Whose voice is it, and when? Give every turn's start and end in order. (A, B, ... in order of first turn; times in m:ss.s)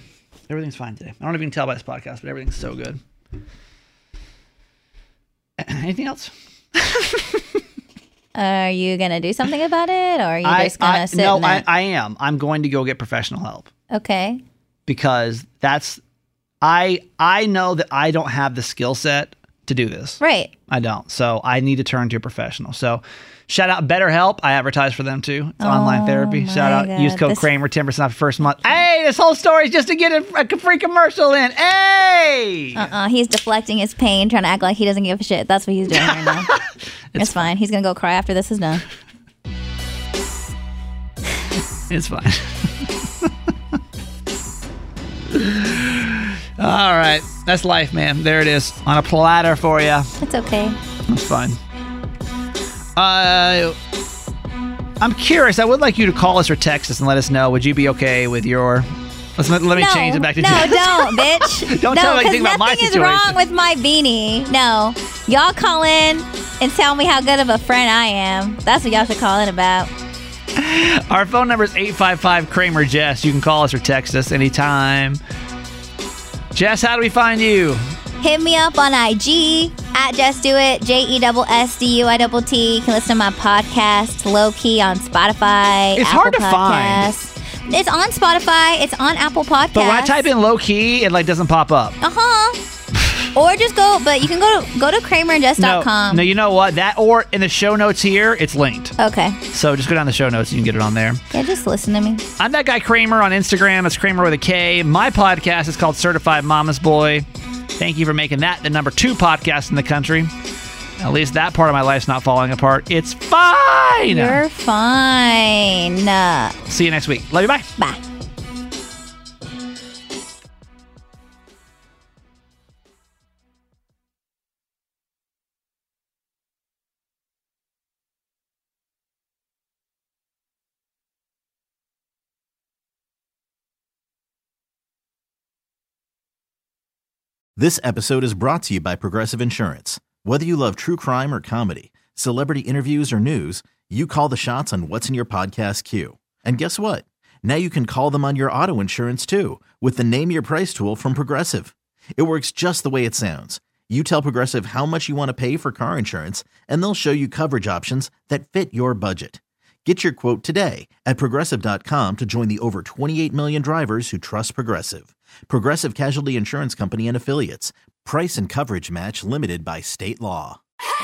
0:00.5-0:03.0 A
0:05.6-0:07.4 A
0:08.4-0:11.6 B
0:10.4-0:13.7 A
0:13.9-0:14.4 B
0:14.9-0:16.0 A
0:16.6-0:32.9 A
0:20.2-0:20.5 B
0:25.6-0:27.4 B
0:32.8-0:36.5 B
0:35.9-0:36.6 A
0:37.1-0:37.4 A
0:37.2-0:38.8 B
0:41.9-0:43.3 A
0:45.3-0:50.1 A
0:50.2-0:50.8 B
0:51.1-0:51.6 A
0:53.0-0:53.8 A
0:55.0-1:03.4 A
0:59.8-1:09.9 B
1:10.6-1:15.2 A
1:16.5-1:17.9 A
1:18.2-1:30.2 B
1:26.0-1:27.1 A
1:29.8-1:32.0 A
1:32.0-1:32.6 B
1:33.3-1:36.2 B
1:35.6-1:38.9 A
1:39.0-1:39.4 B
1:39.5-1:41.2 A
1:41.3-1:42.2 B
1:42.4-1:47.3 A
1:47.8-1:50.3 A
1:51.0-1:54.4 A
1:54.1-1:56.6 B
1:56.7-1:57.7 A
2:17.6-2:50.6 C